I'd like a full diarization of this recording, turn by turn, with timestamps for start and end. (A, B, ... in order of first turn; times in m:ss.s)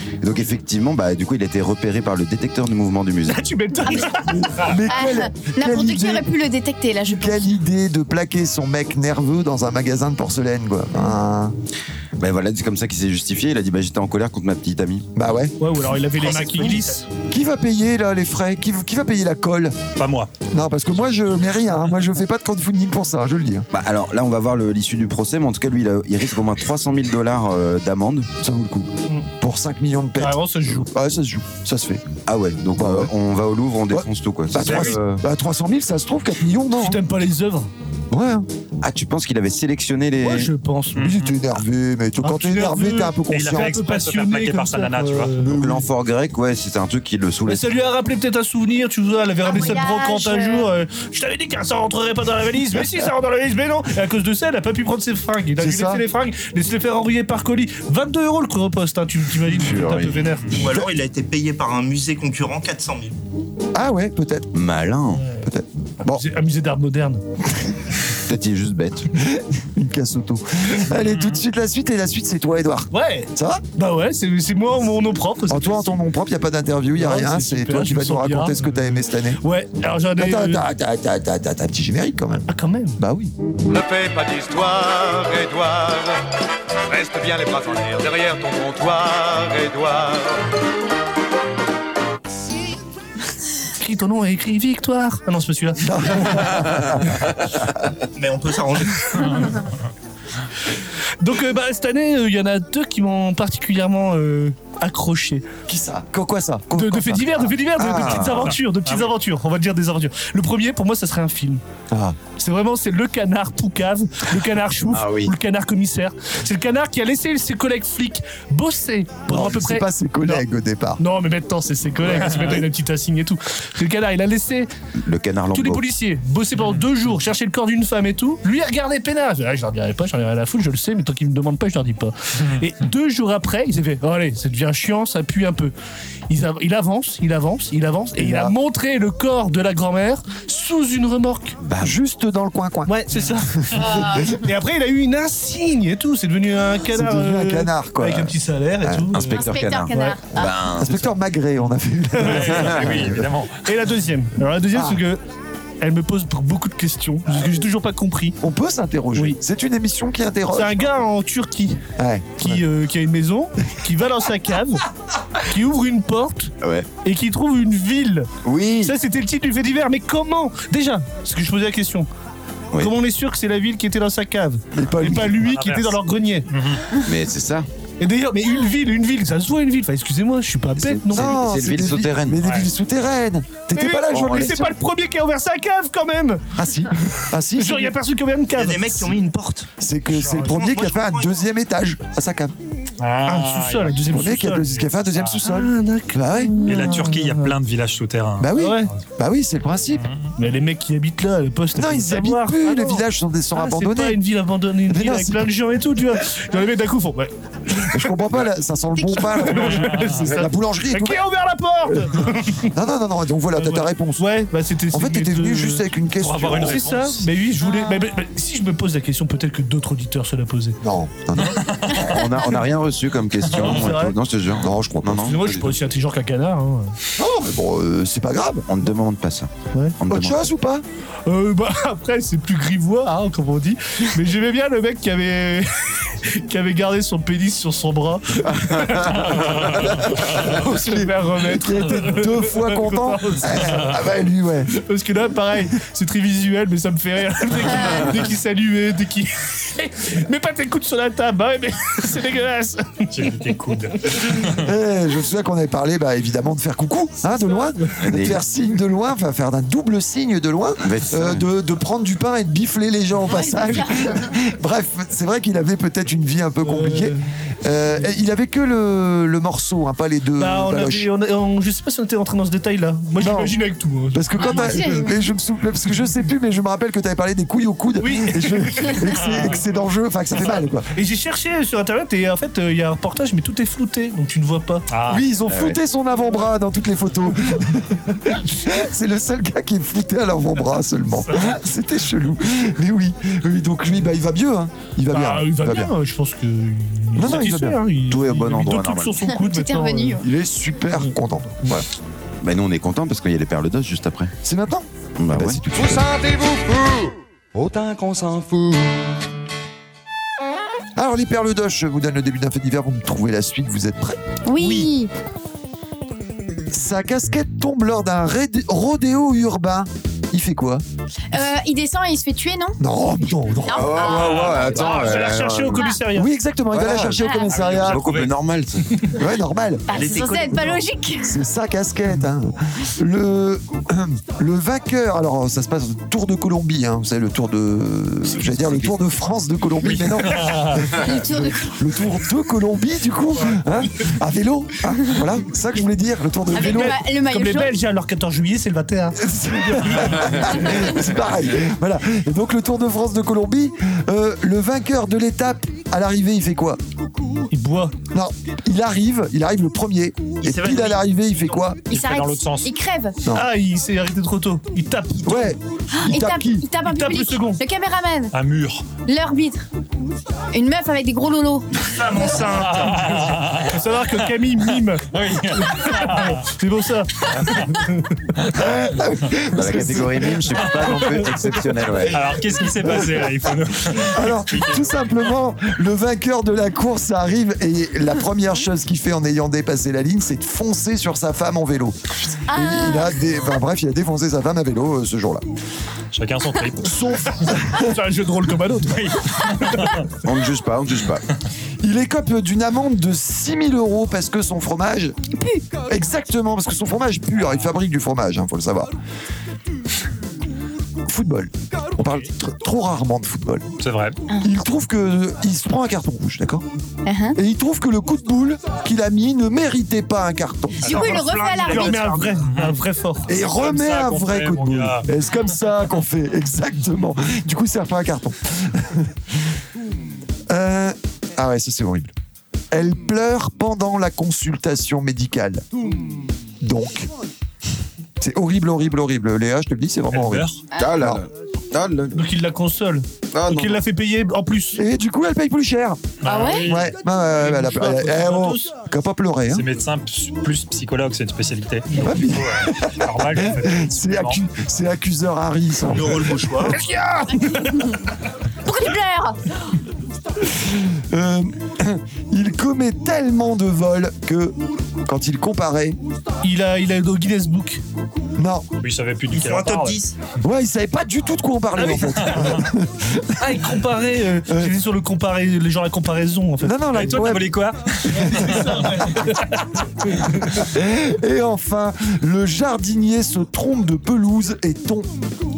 0:00.2-0:03.4 A
0:03.2-0:04.6 B
0:04.3-0:06.3 C
0:04.8-0:07.4 D
0:07.2-0:11.6 C
0:12.2-0:15.1 A
0:15.2-0:15.6 C
0:15.6-0:17.1 B
0:16.2-0:17.0 E
0:16.6-0:19.8 C
0:20.0-0:20.4 F
0:20.5-0:23.7 C
0:23.7-0:28.3 A
0:28.4-0:32.0 C
0:30.2-0:30.9 B
0:32.3-0:35.2 A
0:32.7-0:33.1 C
0:33.9-0:37.0 C
0:34.6-0:35.0 F
0:36.8-0:37.7 B
0:38.1-0:38.5 C
0:38.8-0:40.5 A
0:40.2-0:41.1 B
0:41.0-0:41.4 F
0:41.0-0:43.8 C
0:42.2-0:45.8 B
0:43.3-0:45.4 F
0:45.4-0:47.8 A
0:47.5-1:00.6 B
0:49.4-0:50.7 D
0:55.6-0:56.0 C
0:59.5-1:00.3 A
1:00.5-1:03.2 E
1:03.7-1:04.5 C
1:04.5-1:05.2 A
1:05.2-1:05.5 B
1:05.4-1:06.2 C
1:06.0-1:07.2 B
1:08.3-1:09.1 A
1:09.2-1:13.6 C
1:11.0-1:11.4 F
1:12.9-1:16.0 B
1:15.5-1:19.4 C
1:17.0-1:20.6 B
1:20.2-1:23.3 C
1:22.5-1:23.0 B
1:33.8-1:36.0 B
1:35.8-1:37.2 C
1:38.2-1:39.5 E
1:41.2-1:45.4 B
1:45.7-1:48.5 C
1:46.7-1:51.6 B
1:48.0-1:48.3 A
1:48.3-1:49.2 F
1:51.9-1:52.2 C
1:52.2-2:00.4 B
1:54.9-1:55.3 A
1:59.3-2:01.0 C
2:01.0-2:04.7 B
2:02.1-2:02.6 F
2:05.0-2:05.9 A
2:05.5-2:15.7 B
2:16.3-2:21.6 B
2:18.2-2:18.5 C
2:21.6-2:22.0 A
2:21.8-2:22.9 C
2:22.9-2:30.2 B
2:23.2-2:24.0 F
2:23.7-2:24.3 C
2:27.0-2:29.1 C
2:29.1-2:31.1 A
2:29.3-2:30.5 D
2:30.8-2:33.1 C
2:32.2-2:32.4 B
2:32.2-2:33.7 F
2:32.5-2:33.2 A
2:33.6-2:35.2 B
2:34.7-2:35.0 C
2:35.8-2:38.4 B
2:38.4-2:40.9 C
2:40.5-2:41.8 B
2:42.0-2:42.6 C
2:42.4-2:44.8 B
2:45.5-2:46.5 B
2:46.6-2:46.9 A
2:47.0-2:48.3 B
2:48.4-2:48.9 A
2:48.8-2:52.1 B
2:52.8-2:56.5 B
2:54.7-2:55.4 C
2:55.4-2:56.8 F
2:57.0-2:57.7 A
2:58.0-3:01.4 B
3:00.8-3:02.4 A
3:01.1-3:04.7 C
3:02.4-3:02.7 F
3:03.7-3:06.4 B
3:04.1-3:04.5 A
3:06.5-3:08.0 C
3:07.6-3:09.1 B
3:08.6-3:11.4 E
3:09.8-3:12.5 C
3:10.3-3:10.5 B
3:13.0-3:14.2 F
3:13.2-3:14.8 B
3:14.1-3:16.6 C
3:15.0-3:15.4 F
3:15.4-3:17.6 B
3:16.6-3:18.5 F
3:18.4-3:20.0 C
3:18.5-3:18.9 B
3:19.9-3:20.3 F
3:20.4-3:23.0 B
3:21.8-3:24.2 C
3:23.6-3:28.1 B
3:24.9-3:25.5 C
3:27.7-3:31.2 C
3:29.1-3:32.7 B
3:29.5-3:30.2 F
3:32.7-3:34.3 C
3:33.6-3:40.8 B
3:34.9-3:36.8 C
3:36.2-3:37.2 F
3:40.8-3:41.7 C
3:41.4-3:42.1 F
3:42.0-3:45.8 A
3:43.5-3:43.9 F
3:43.6-3:44.2 B
3:44.6-3:45.3 C
3:45.2-3:47.0 B
3:47.2-3:48.7 C
3:48.7-3:50.5 A
3:50.1-3:50.8 C
3:51.3-3:59.5 B
3:58.5-3:59.3 A
3:59.3-4:00.4 F
4:00.3-4:04.0 B
4:00.7-4:04.7 C
4:04.7-4:13.6 B
4:13.1-4:14.7 F
4:14.2-4:31.1 C
4:18.0-4:18.4 A
4:20.8-4:21.4 A
4:23.3-4:24.3 D
4:26.6-4:27.2 B
4:30.4-4:35.1 B
4:33.2-4:33.6 C
4:34.1-4:40.9 C
4:34.4-4:35.1 D
4:38.0-4:39.0 B
4:39.3-4:39.5 F
4:40.5-4:44.9 B
4:44.9-4:45.3 F
4:45.1-4:55.9 C
4:45.5-4:45.8 A
4:55.1-5:00.2 B
4:57.2-4:57.8 C
4:58.1-4:59.2 A
4:59.3-5:00.2 D
5:00.2-5:01.9 C
5:02.4-5:04.3 A
5:04.4-5:06.1 C
5:05.2-5:06.0 A
5:05.8-5:07.0 G
5:07.6-5:08.9 G
5:11.0-5:14.8 C
5:14.5-5:15.1 D
5:16.7-5:20.8 C
5:21.3-5:22.8 D
5:22.8-5:24.2 C
5:23.6-5:24.9 D
5:23.7-5:25.9 A
5:24.7-5:26.3 B
5:26.1-5:28.1 C
5:26.7-5:27.2 A
5:27.2-5:27.5 D
5:27.5-5:28.4 F
5:27.8-5:28.8 A
5:29.2-5:30.0 C
5:29.9-5:31.4 D
5:29.9-5:30.8 E
5:30.6-5:47.0 C
5:39.8-5:41.0 F
5:40.9-5:41.7 D
5:46.5-5:47.7 D
5:46.5-5:49.2 B
5:49.2-5:56.8 C
5:57.5-5:58.0 B
5:58.1-6:01.8 C
6:00.4-6:01.4 E
6:01.9-6:02.7 F
6:01.9-6:03.2 D
6:03.3-6:05.6 B
6:05.2-6:06.7 C
6:06.0-6:08.3 D
6:06.8-6:07.6 B
6:08.3-6:08.8 F
6:09.1-6:09.7 D
6:10.5-6:12.4 D
6:12.0-6:12.8 E
6:12.1-6:18.2 B
6:12.5-6:16.5 F
6:17.3-6:17.8 F
6:18.5-6:20.6 C
6:19.5-6:22.3 A
6:22.1-6:25.2 F
6:22.7-6:23.3 C
6:23.9-6:32.0 C
6:32.5-6:33.2 D
6:32.5-6:35.4 C
6:36.1-6:37.0 F
6:36.8-6:37.9 C
6:37.7-6:40.0 B
6:38.9-6:40.1 F
6:40.2-6:41.2 A
6:41.8-6:45.2 C
6:45.9-6:48.9 C
6:51.1-6:53.7 C
6:53.8-6:54.2 F
6:54.4-6:56.6 C
6:57.0-6:57.4 D
6:57.4-7:01.1 C
7:00.8-7:02.2 D
7:00.8-7:02.4 E
7:00.9-7:01.2 F
7:01.7-7:03.3 B
7:02.5-7:02.8 F
7:03.3-7:09.1 C
7:03.3-7:05.1 F
7:10.5-7:12.1 C
7:12.7-7:15.6 C
7:16.6-7:17.1 C
7:18.2-7:21.2 C
7:20.1-7:20.6 F
7:20.8-7:22.2 A
7:22.1-7:24.8 B
7:23.3-7:23.8 A
7:24.8-7:26.1 C
7:26.2-7:27.0 F
7:26.2-7:26.7 D
7:26.6-7:29.6 C
7:27.3-7:28.7 B
7:29.5-7:34.4 F
7:32.0-7:36.5 C
7:35.9-7:36.8 E
7:36.7-7:38.0 B
7:37.3-7:38.0 D
7:38.6-7:39.4 D
7:40.5-7:46.0 C
7:46.4-7:47.8 B
7:48.4-7:48.7 C
7:48.8-7:50.0 F
7:49.3-7:50.2 E
7:50.4-7:53.5 C
7:51.8-7:52.0 B
7:52.2-7:52.6 F
7:53.4-7:57.4 B
7:54.5-7:54.8 C
7:56.6-7:57.5 C
7:56.9-7:59.6 F
7:58.1-8:00.7 B
8:00.6-8:05.1 C